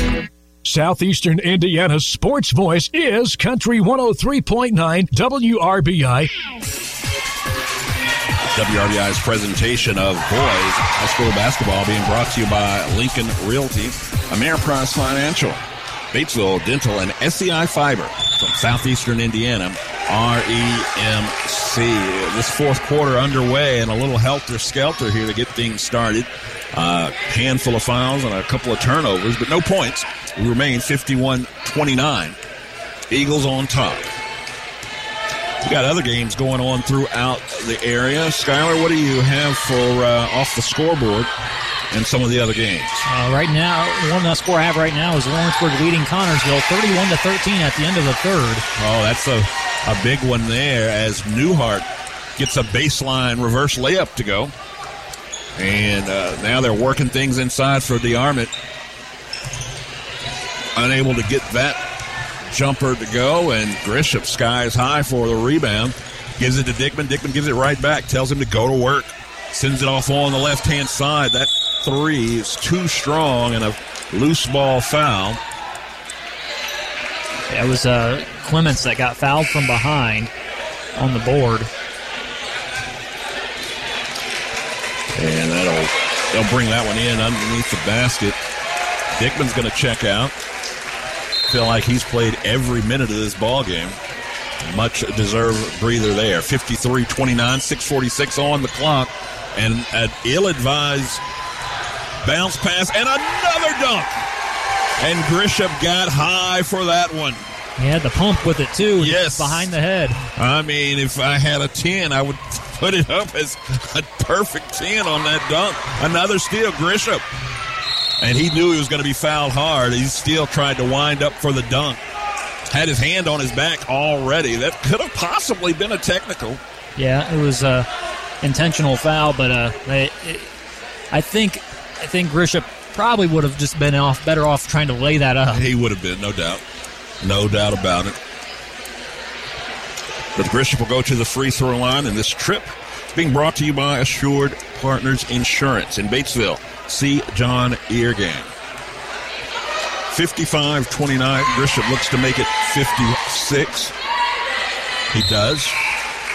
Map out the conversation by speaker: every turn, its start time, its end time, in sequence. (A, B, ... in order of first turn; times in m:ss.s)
0:00.6-0:06.3 A
0:08.5-0:15.6 B
0:16.1-0:32.4 B
0:33.1-0:34.1 B
0:35.6-0:41.3 B
0:41.9-0:43.0 B
0:43.0-0:48.6 C
0:48.8-0:51.8 B
0:52.4-0:54.5 B
0:55.6-0:58.5 B
1:00.8-1:01.8 B
1:02.5-1:15.4 B
1:17.5-1:20.3 C
1:21.0-1:21.7 C
1:25.1-1:28.4 B
1:29.2-1:30.3 B
1:31.5-1:34.0 B
1:34.6-1:41.2 B
1:42.2-1:44.2 B
1:45.0-1:47.4 B
1:47.8-1:50.2 C
1:49.0-1:49.7 B
1:50.4-1:57.2 B
1:58.2-2:02.0 B
2:02.7-2:06.6 B
2:07.0-2:07.9 C
2:08.4-2:10.5 C
2:11.1-2:15.6 C
2:15.5-2:16.6 B
2:17.2-2:18.2 B
2:20.4-2:28.5 B
2:30.1-2:33.9 B
2:35.1-2:35.8 B